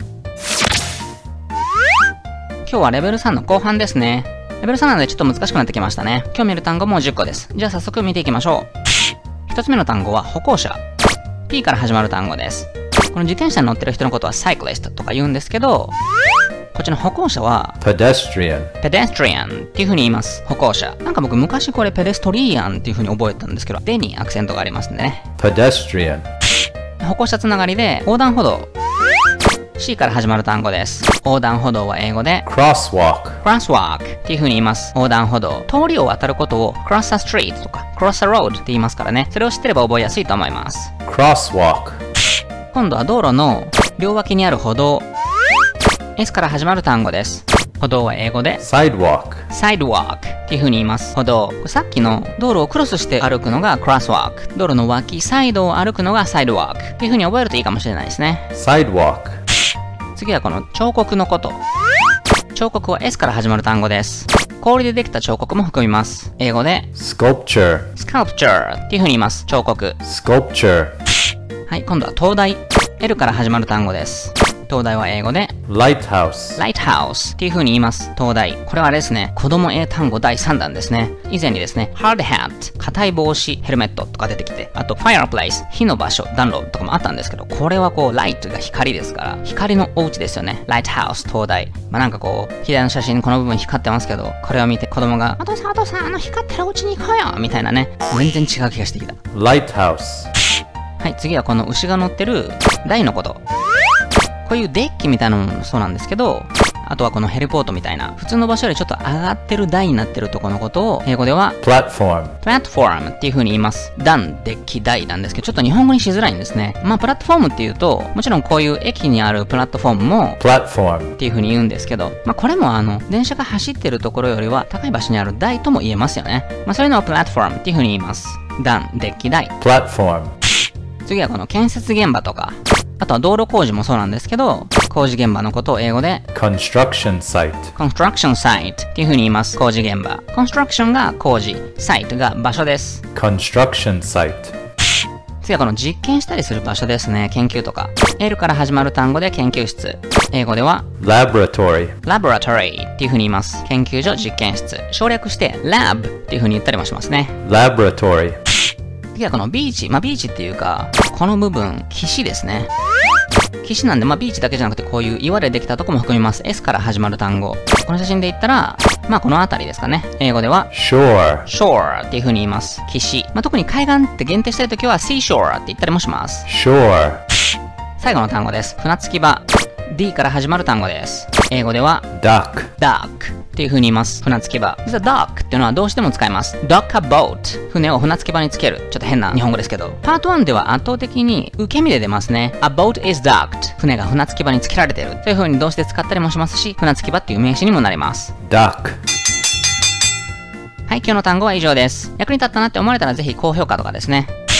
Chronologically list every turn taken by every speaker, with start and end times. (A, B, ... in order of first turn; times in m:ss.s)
0:02.6-0:08.7 A
0:09.5-0:10.8 A
0:11.5-0:15.9 A
0:16.7-0:17.8 A
0:17.8-0:18.7 B
0:18.8-0:25.3 A
0:25.4-0:26.2 B
0:27.0-0:28.7 A
0:29.8-0:32.4 A
0:32.4-0:33.4 B
0:33.4-0:40.9 A
0:41.0-0:42.0 B
0:42.7-0:45.0 A
0:46.2-0:48.6 A
0:48.6-0:49.4 B
0:49.5-0:58.5 A
0:58.5-0:59.4 B
1:00.1-1:01.6 A
1:02.5-1:06.9 A
1:07.0-1:07.9 B
1:08.0-1:10.0 A
1:10.0-1:10.9 B
1:11.7-1:15.5 A
1:15.7-1:16.6 B
1:16.6-1:39.2 A
1:39.3-1:40.3 B
1:41.0-1:43.4 A
1:44.4-1:51.6 A
1:51.6-1:52.3 B
1:52.4-2:00.4 A
2:00.4-2:01.2 B
2:01.2-2:09.5 A
2:09.6-2:10.3 B
2:11.0-2:16.2 A
2:16.3-2:17.7 B
2:17.8-2:23.0 A
2:23.1-2:24.5 B
2:25.4-2:30.9 A
2:31.0-2:31.9 B
2:32.0-2:37.3 A
2:37.4-2:38.4 B
2:39.1-2:42.7 A
2:43.6-2:50.7 A
2:50.7-2:51.5 B
2:51.4-2:56.5 A
2:56.5-2:57.2 B
2:58.0-3:02.0 A
3:02.1-3:02.7 B
3:02.8-3:18.3 A
3:18.4-3:19.0 B
3:20.9-3:24.3 A